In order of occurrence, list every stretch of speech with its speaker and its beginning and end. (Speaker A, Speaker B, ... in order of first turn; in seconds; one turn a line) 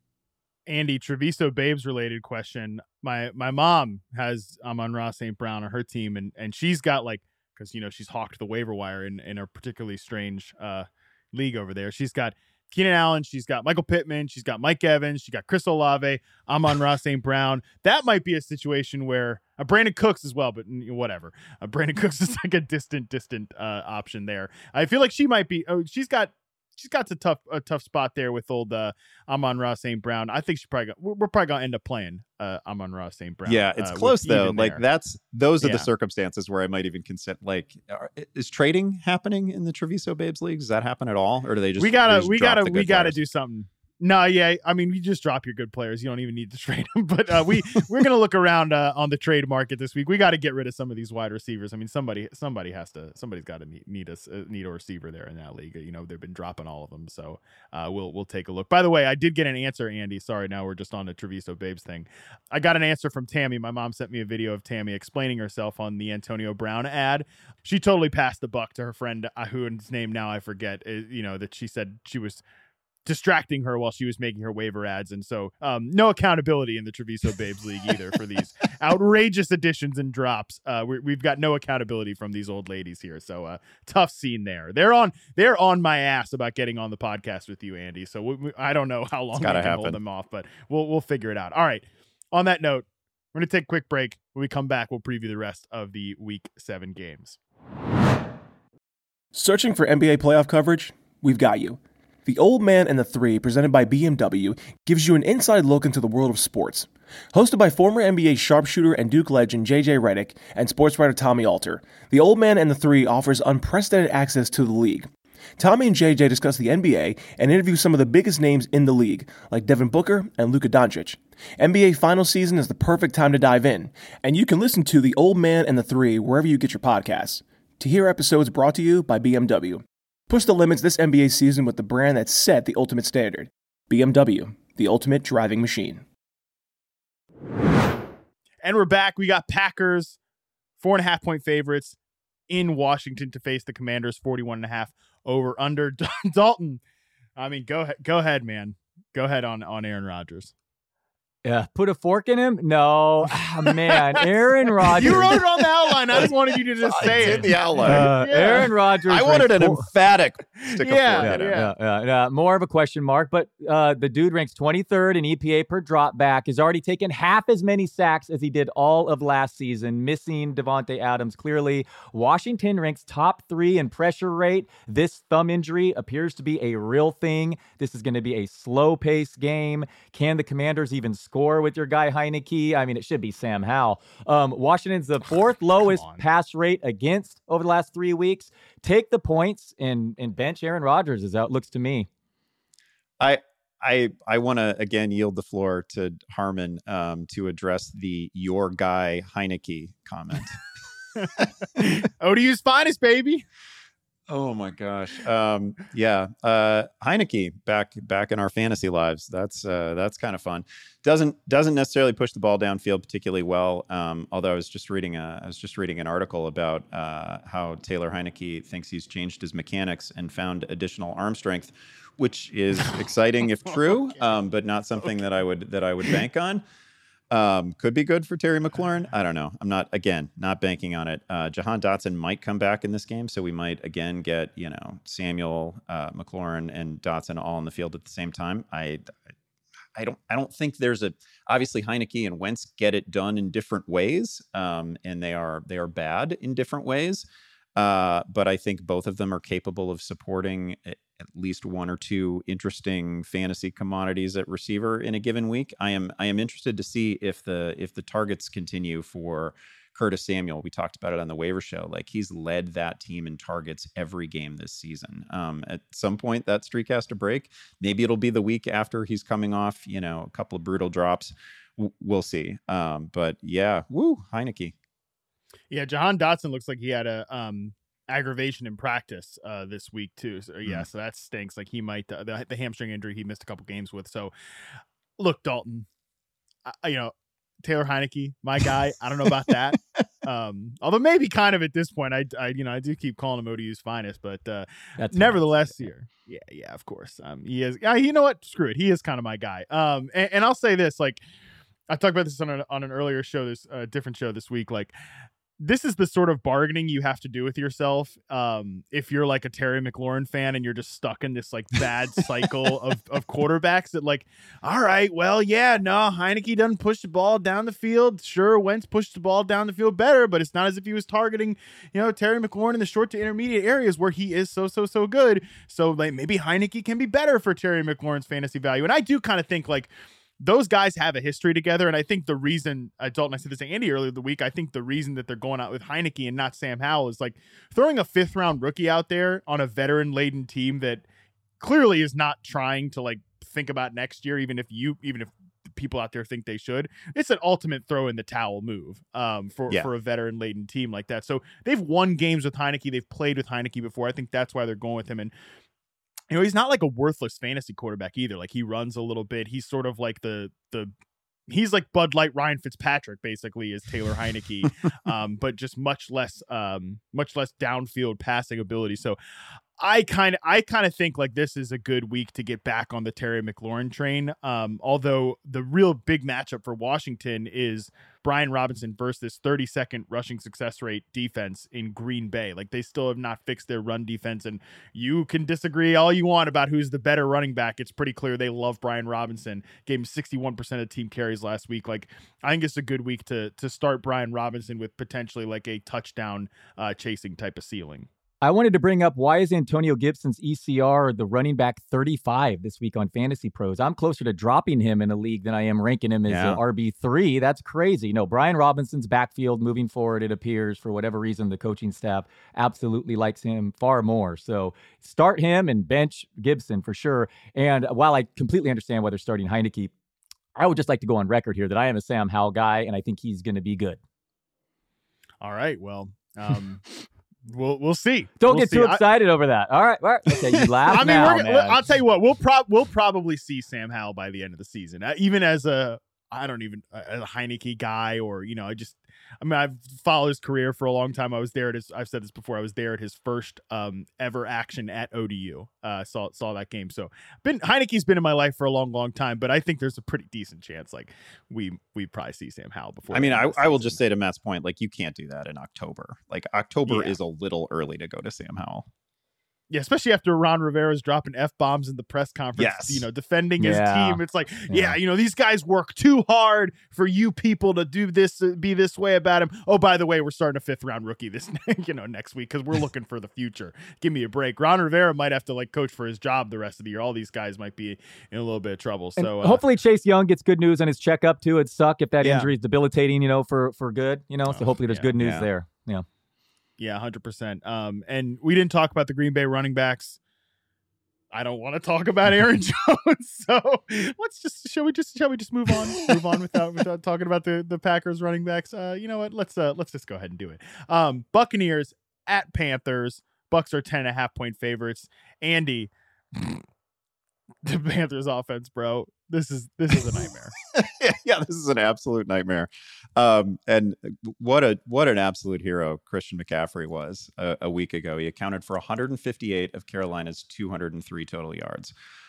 Speaker A: 0.7-34.8
Speaker B: 33.5-43.2
Speaker A: 35.6-35.9
Speaker A: 41.8-72.4
Speaker A: 73.0-97.4
Speaker B: 89.3-90.0
Speaker C: 99.3-136.1
Speaker A: 138.6-140.2
Speaker A: 140.8-142.0
Speaker A: 142.5-146.8
Speaker A: 147.4-150.5
Speaker D: 151.4-155.4
Speaker A: 154.8-158.7
Speaker B: 156.8-161.6
Speaker D: 157.8-159.9
Speaker A: 160.7-161.7
Speaker D: 161.2-192.1
Speaker A: 186.0-186.2
Speaker B: 193.2-200.6
Speaker A: 201.8-203.4
Speaker B: 204.3-226.6
Speaker B: 227.3-239.1
Speaker B: 240.0-274.8
Speaker A: 275.7-284.3
Speaker A: 285.2-285.9
Speaker A: 286.7-301.2
Speaker D: 295.0-295.9
Speaker A: 301.9-305.0
Speaker A: 305.6-341.1
Speaker A: 341.6-355.3
Speaker A: 356.3-360.9
Speaker A: 361.5-369.2
Speaker A: 369.8-398.1
Speaker D: 398.4-419.9
Speaker B: 406.3-406.6
Speaker D: 420.6-424.0
Speaker A: 425.4-426.9
Speaker A: 427.5-429.0
Speaker D: 428.4-431.8
Speaker A: 430.3-454.0
Speaker B: 453.1-458.9
Speaker A: 456.9-457.1
Speaker A: 459.7-479.6
Speaker B: 462.6-463.1
Speaker D: 463.6-464.9
Speaker D: 479.2-486.1
Speaker A: 482.2-482.5
Speaker A: 484.5-485.1
Speaker B: 485.2-485.5
Speaker A: 486.8-490.2
Speaker A: 491.3-506.6
Speaker A: 507.6-510.6
Speaker B: 510.7-521.9